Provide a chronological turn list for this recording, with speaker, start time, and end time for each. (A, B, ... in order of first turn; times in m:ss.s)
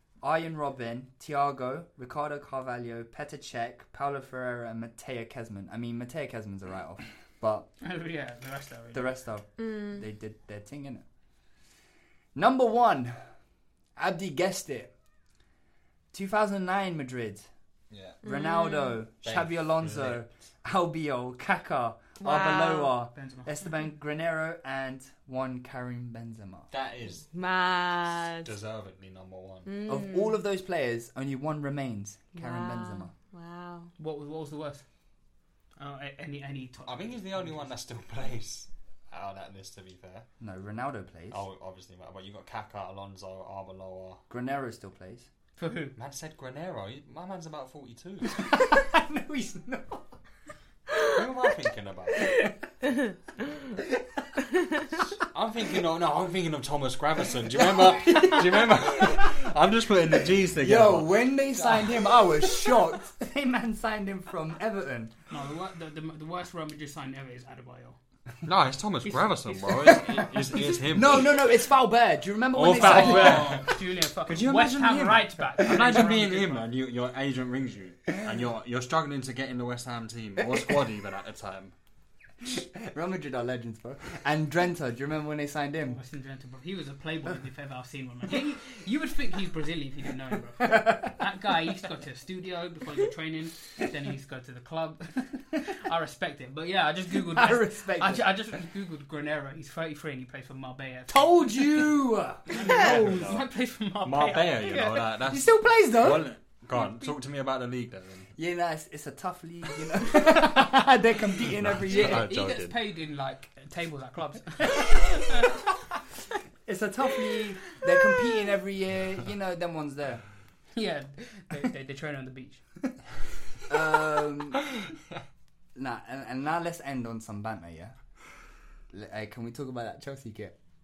0:00.2-0:07.7 A
0:07.8-0:09.2 B
0:08.9-0:11.0 A
0:09.6-0:10.0 C
0:12.4-0:13.2 A
0:14.0-0:14.9 A
0:16.1-0:17.5 A
0:17.9-0:18.2 D
0:18.2-0:26.7 A
0:18.2-0:19.0 C
0:19.2-0:20.3 D
0:22.2-0:23.0 C
0:23.1-0:23.5 B
0:26.7-0:27.3 D
0:27.3-0:28.5 C
0:28.4-0:29.7 D
0:29.7-0:30.4 C
0:29.9-0:33.1 A
0:32.4-0:33.9 C
0:34.0-0:34.8 B
0:35.8-0:37.7 B
0:36.9-0:40.3 D
0:40.4-0:41.4 A
0:41.3-0:44.2 D
0:44.3-0:45.3 A
0:45.6-0:45.9 B
0:46.0-0:48.4 D
0:48.3-0:50.0 A
0:51.1-0:52.3 D
0:55.2-1:01.4 D
0:57.9-0:58.7 A
1:00.6-1:05.1 A
1:05.3-1:08.0 B
1:08.4-1:11.4 D
1:09.0-1:10.3 B
1:09.9-1:10.2 A
1:10.8-1:13.7 A
1:12.5-1:21.7 D
1:12.7-1:16.6 B
1:14.3-1:16.0 A
1:22.4-1:26.0 A
1:25.9-1:41.8 B
1:30.6-1:31.1 A
1:37.3-1:38.3 A
1:41.1-1:43.1 A
1:42.5-1:45.0 B
1:42.6-1:43.5 D
1:44.0-1:48.3 D
1:45.3-1:46.3 A
1:46.8-1:47.1 B
1:48.4-1:52.3 A
1:51.6-1:52.8 D
1:51.9-1:55.5 B
1:56.7-2:00.2 A
2:00.8-2:02.6 B
2:03.7-2:04.7 A
2:05.8-2:08.0 A
2:08.9-2:10.6 A